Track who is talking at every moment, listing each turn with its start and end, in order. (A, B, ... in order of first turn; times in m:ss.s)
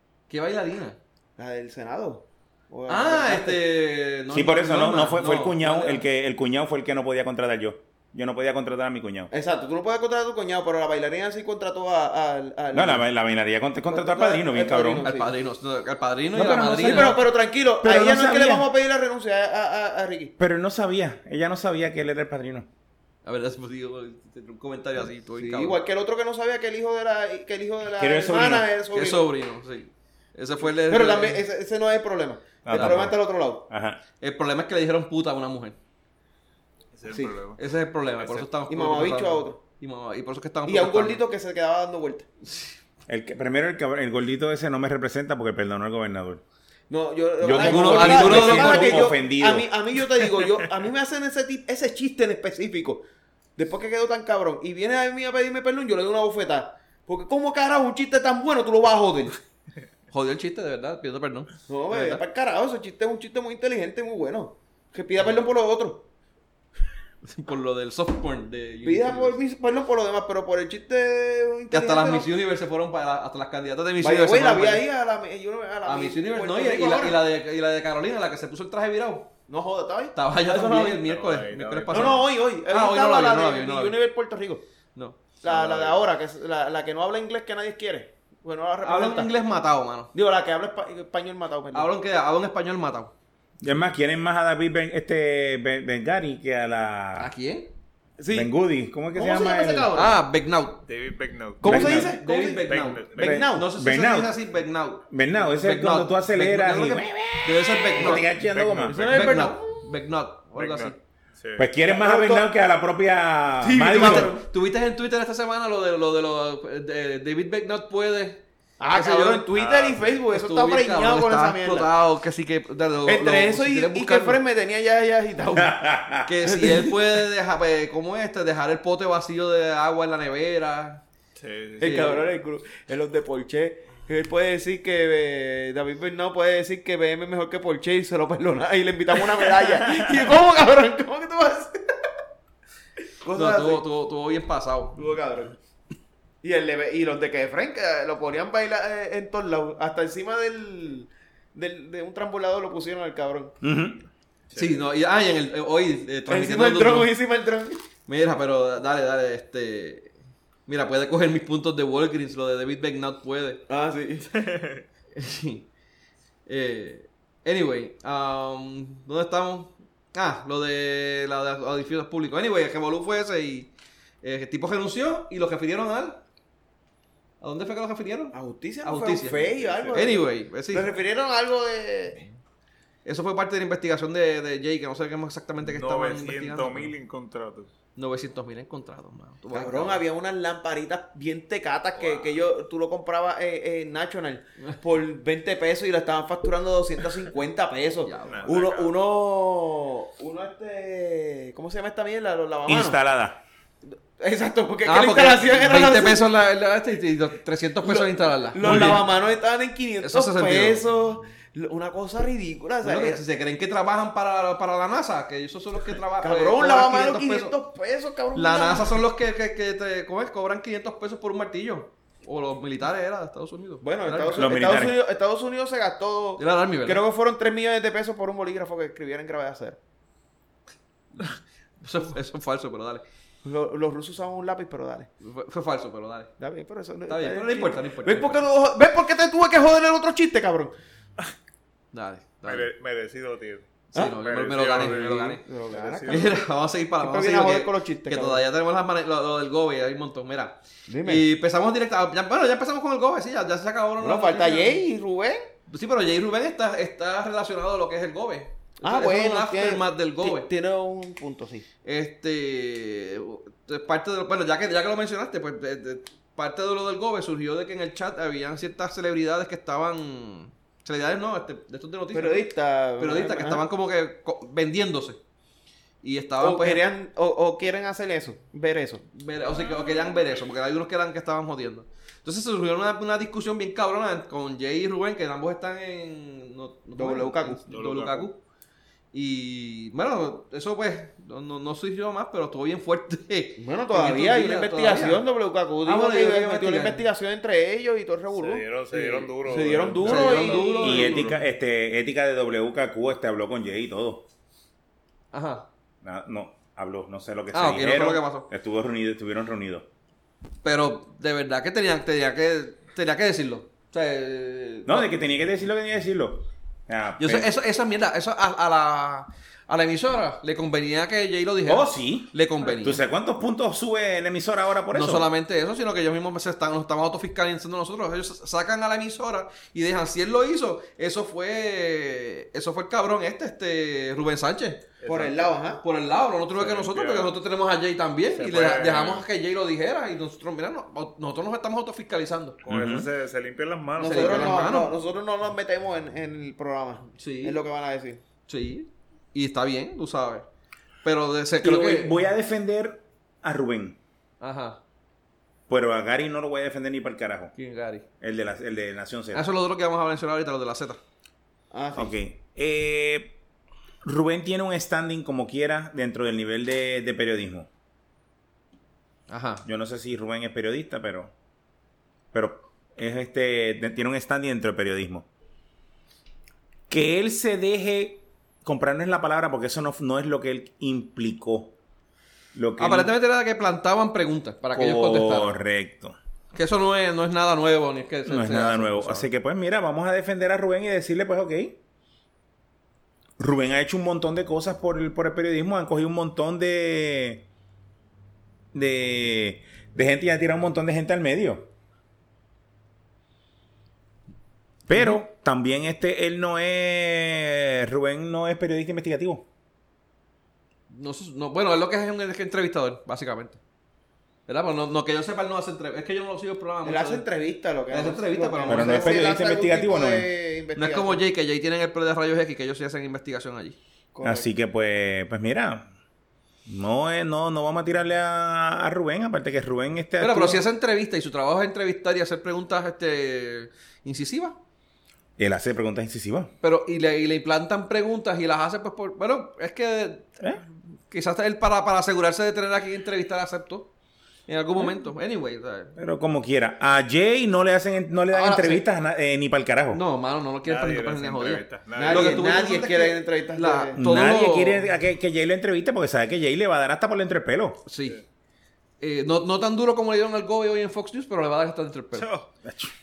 0:00.3-0:01.0 A
0:01.4-0:03.6 B
0:02.9-0:06.0 A
0:04.3-0:09.3 C
0:09.3-0:13.0 B
0:12.7-0:15.1 C
0:13.9-0:15.4 B
0:15.0-0:17.2 A
0:16.3-0:17.3 C
0:16.8-0:20.3 B
0:17.8-0:18.7 C
0:20.4-0:22.7 C
0:23.2-0:25.8 A
0:25.4-0:29.3 B
0:28.0-0:28.7 C
0:28.9-0:31.4 A
0:30.6-0:33.6 B
0:32.6-0:34.0 C
0:32.7-0:33.0 A
0:34.2-0:35.8 A
0:36.9-0:37.6 D
0:37.1-0:37.4 B
0:37.6-0:41.2 A
0:38.2-0:38.4 D
0:38.7-0:39.6 B
0:40.6-0:42.3 B
0:42.4-0:42.7 A
0:43.1-0:46.4 C
0:46.9-0:53.0 B
0:47.4-0:49.7 C
0:47.5-0:49.1 A
0:53.6-0:59.4 B
1:00.1-1:02.2 A
1:01.7-1:06.0 B
1:07.2-1:09.4 A
1:08.8-1:12.3 B
1:11.7-1:14.8 A
1:14.0-1:17.2 B
1:15.8-1:19.3 A
1:19.5-1:21.0 B
1:20.1-1:24.0 A
1:21.0-1:22.3 D
1:21.9-1:24.6 B
1:25.0-1:25.3 A
1:25.4-1:29.3 B
1:25.5-1:26.0 D
1:28.8-1:30.1 A
1:30.1-1:31.9 B
1:31.7-1:33.1 A
1:33.6-1:37.3 C
1:37.2-1:37.7 A
1:38.2-1:38.5 B
1:38.3-1:39.9 C
1:39.1-1:40.2 B
1:39.9-1:40.8 A
1:40.9-1:43.4 D
1:41.6-1:43.7 B
1:41.6-1:42.1 C
1:41.7-1:48.2 A
1:43.2-1:44.3 C
1:45.1-1:49.3 C
1:48.4-1:49.3 D
1:48.9-1:49.7 B
1:48.9-1:51.0 A
1:50.6-1:51.7 D
1:51.6-1:54.3 C
1:51.8-1:52.5 B
1:53.6-1:54.4 B
1:53.9-1:59.5 A
1:58.8-2:01.9 B
1:59.5-2:00.2 D
2:00.3-2:04.4 A
2:03.0-2:05.9 B
2:05.5-2:06.3 C
2:06.2-2:11.0 A
2:06.4-2:07.0 B
2:11.4-2:12.1 D
2:11.8-2:21.9 B
2:11.8-2:12.3 A
2:23.2-2:23.8 B
2:23.3-2:25.0 A
2:25.0-2:25.6 B
2:26.4-2:33.5 B
2:33.6-2:34.0 C
2:34.5-2:34.8 D
2:34.5-2:37.1 A
2:36.3-2:37.8 B
2:38.1-2:40.1 A
2:40.7-2:43.6 A
2:43.7-2:44.3 B
2:44.3-2:44.8 D
2:45.1-2:45.7 A
2:46.5-2:53.7 A
2:54.2-2:56.2 A
2:57.4-3:00.9 A
2:58.3-3:02.2 B
2:59.4-3:00.0 D
3:03.0-3:06.9 A
3:05.6-3:07.7 D
3:08.0-3:10.0 A
3:09.5-3:23.0 B
3:18.0-3:18.5 A
3:18.2-3:18.9 D
3:22.6-3:23.4 C
3:23.9-3:26.2 B
3:24.8-3:29.1 A
3:27.8-3:33.2 B
3:28.6-3:29.0 C
3:30.0-3:30.8 A
3:32.8-3:37.5 A
3:36.2-3:39.0 B
3:38.3-3:44.6 A
3:43.8-3:49.8 B
3:44.4-3:45.0 C
3:46.4-3:47.0 A
3:51.2-3:53.0 A
3:53.4-3:55.1 B
3:55.2-3:56.3 A
3:56.4-4:00.7 B
3:57.1-3:58.4 A
4:01.9-4:02.7 A
4:02.4-4:06.4 D
4:03.9-4:05.4 A
4:04.8-4:06.4 B
4:06.0-4:14.8 A
4:07.0-4:08.4 B
4:10.9-4:11.2 B
4:14.0-4:15.5 B
4:15.7-4:20.5 A
4:18.8-4:21.6 B
4:21.8-4:35.2 A
4:32.1-4:33.6 B
4:36.0-4:36.8 A
4:36.4-4:39.0 B
4:39.1-4:48.4 A
4:39.6-4:40.2 D
4:46.9-4:47.6 B
4:47.7-4:48.3 D
4:49.1-4:55.2 A
4:53.6-4:58.7 B
4:55.8-4:57.0 A
4:58.3-5:01.4 D
4:58.9-4:59.3 A
4:59.4-5:01.2 B
5:00.0-5:01.3 A
5:00.8-5:04.2 C
5:05.3-5:05.7 A
5:06.0-5:09.9 C
5:07.5-5:08.5 A
5:10.6-5:15.1 A
5:14.8-5:17.5 C
5:17.2-5:23.0 A
5:21.6-5:25.3 C
5:24.9-5:34.8 A
5:35.0-5:35.6 D
5:35.0-5:35.8 B
5:35.8-5:42.6 A
5:36.5-5:37.3 D
5:38.3-5:39.2 D
5:42.6-5:44.7 D
5:42.7-5:43.1 C
5:44.0-5:48.2 B
5:44.0-5:44.9 A
5:47.1-5:47.6 A
5:48.5-5:50.5 A
5:51.0-5:52.2 A
5:51.6-5:54.0 C
5:54.4-5:54.8 A
5:55.7-5:57.5 C
5:57.5-5:58.0 A
5:58.2-5:59.4 C
5:59.3-6:01.0 A
6:01.7-6:02.1 B
6:01.9-6:03.4 C
6:04.0-6:07.7 C
6:09.3-6:09.6 A
6:09.6-6:11.3 C
6:12.3-6:15.3 C
6:16.9-6:21.7 C
6:22.5-6:23.1 C
6:22.8-6:25.6 A
6:24.7-6:26.2 C
6:26.5-6:29.3 A
6:28.2-6:31.8 C
6:33.4-6:37.4 C
6:38.7-6:41.7 C
6:44.9-6:49.4 C
6:50.9-6:53.6 A
6:54.5-6:57.2 A
6:56.8-7:01.2 B
6:57.9-6:59.3 A
6:58.7-7:00.3 C
7:00.8-7:03.8 A
7:04.1-7:04.5 B
7:04.2-7:05.9 C
7:06.6-7:10.6 C
7:10.2-7:14.6 A
7:15.4-7:16.5 C
7:16.6-7:20.4 A
7:21.1-7:23.9 A
7:24.5-7:25.9 A
7:26.0-7:30.0 C
7:28.3-7:28.8 A
7:29.9-7:34.9 A
7:30.6-7:32.6 D
7:31.9-7:34.0 B
7:34.0-7:37.8 C
7:37.8-7:38.2 A
7:39.0-7:42.3 A
7:42.1-7:42.5 D
7:42.6-7:42.9 C